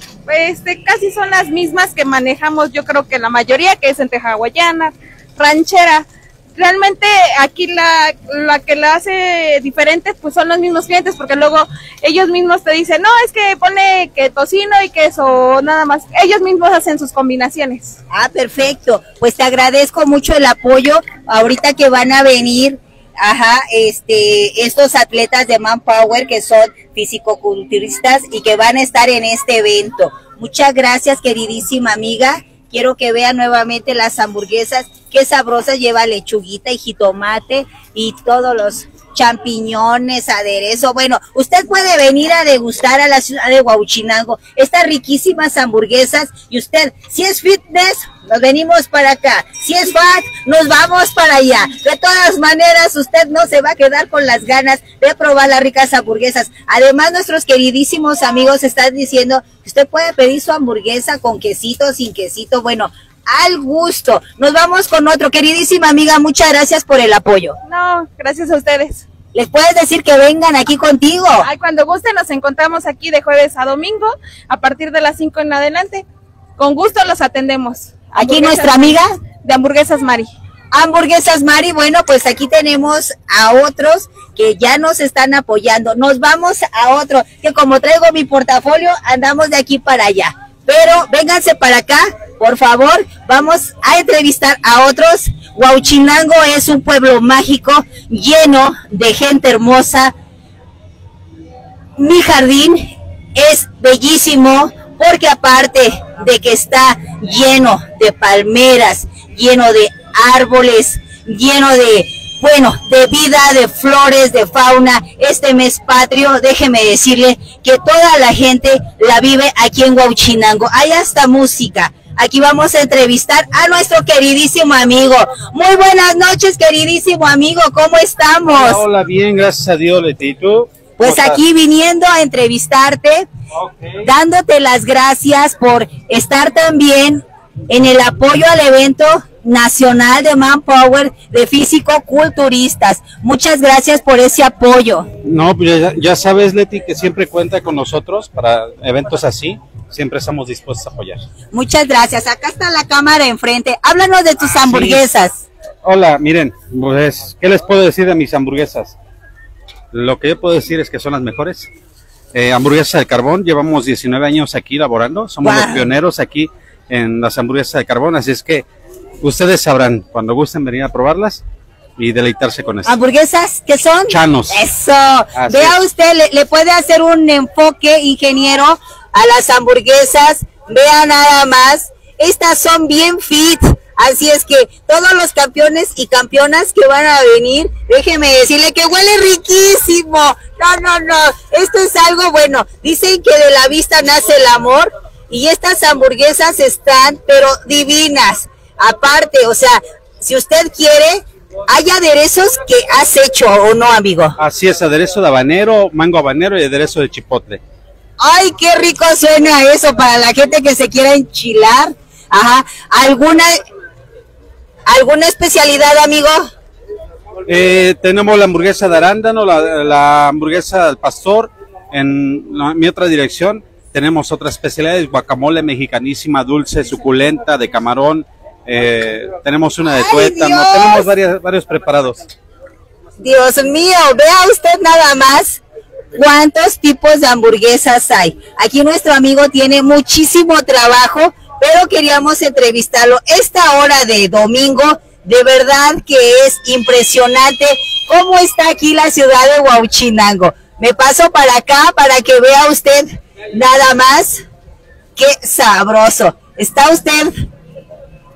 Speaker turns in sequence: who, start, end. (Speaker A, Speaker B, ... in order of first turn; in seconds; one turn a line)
Speaker A: 0.3-18.0
Speaker B: 18.1-67.6
Speaker A: 67.7-69.0
Speaker B: 69.3-71.5
Speaker A: 71.4-76.0
Speaker A: 76.6-80.3
Speaker B: 78.2-79.1
Speaker B: 80.7-100.1
Speaker B: 102.0-128.8
Speaker C: 128.5-131.4
Speaker B: 131.0-133.3
Speaker C: 133.6-133.9
Speaker B: 134.0-145.1
Speaker C: 145.2-151.2
Speaker B: 151.5-155.4
Speaker C: 154.7-155.1
Speaker C: 155.8-159.0
Speaker C: 159.9-161.7
Speaker C: 162.3-168.7
Speaker B: 165.4-165.9
Speaker C: 169.2-171.4
Speaker C: 172.0-172.9
Speaker B: 172.8-204.3
Speaker C: 174.1-174.6
Speaker C: 175.4-175.8
Speaker C: 204.4-207.6
Speaker B: 208.2-213.6
Speaker B: 214.9-216.4
Speaker C: 217.5-232.2
Speaker B: 230.0-231.1
Speaker B: 233.2-235.6
Speaker B: 236.2-254.4
Speaker B: 255.2-257.5